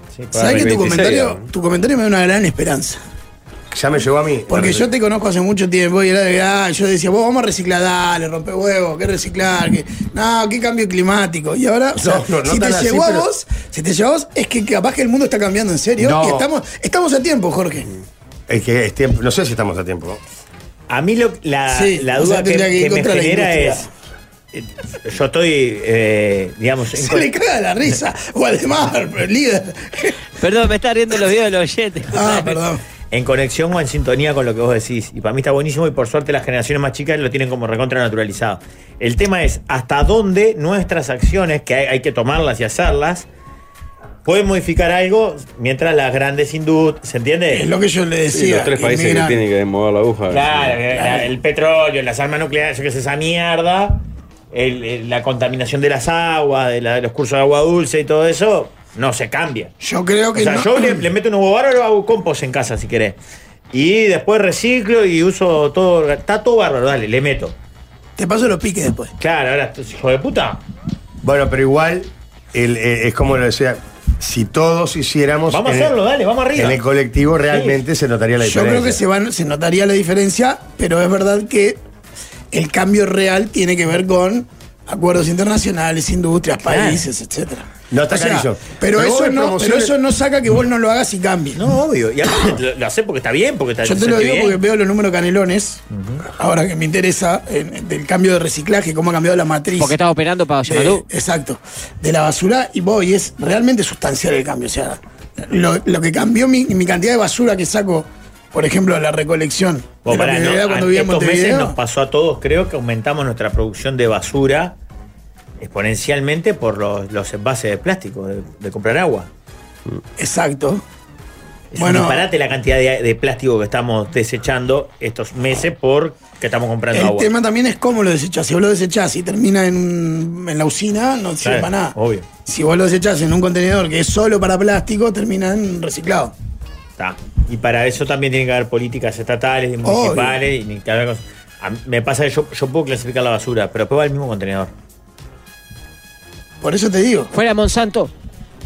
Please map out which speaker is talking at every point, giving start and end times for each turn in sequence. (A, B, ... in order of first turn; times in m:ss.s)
0:00.1-0:00.8 A
0:00.3-0:03.0 B
0:00.4-0:01.4 C
0:03.7-0:04.9 D
0:04.5-0:17.9 B
0:12.0-0:13.3 D
0:16.0-0:16.5 D
0:18.5-0:20.2 D
0:20.9-0:23.9 A
0:21.7-0:23.9 B
0:24.5-0:27.3 A
0:26.9-0:30.2 B
0:30.4-0:32.5 E
0:32.1-0:32.8 B
0:33.1-0:43.3 A
0:44.2-0:47.7 A
0:47.5-0:49.4 B
0:48.3-0:50.8 C
0:50.3-0:54.0 A
0:51.0-0:51.3 B
0:54.5-0:59.7 A
0:59.8-1:01.1 B
1:00.4-1:03.2 A
1:03.7-1:07.6 A
1:08.2-1:09.1 B
1:09.2-1:10.6 A
1:11.2-1:15.9 D
1:15.5-1:16.8 A
1:16.6-1:19.0 D
1:17.5-1:17.8 A
1:18.4-1:21.8 B
1:22.5-1:31.6 B
1:26.7-1:27.0 A
1:27.9-1:29.9 D
1:31.6-1:34.6 A
1:32.3-1:32.5 B
1:33.8-1:35.8 B
1:35.9-1:36.2 A
1:36.4-1:40.0 B
1:39.8-1:41.0 E
1:40.7-1:51.8 B
1:50.0-1:54.8 A
1:55.6-1:59.3 A
2:00.2-2:00.8 B
2:01.7-2:07.3 A
2:01.8-2:02.3 B
2:06.9-2:12.0 B
2:11.4-2:12.3 A
2:12.5-2:16.3 B
2:17.0-2:24.7 A
2:19.8-2:20.4 B
2:26.6-2:27.3 B
2:27.3-2:28.1 E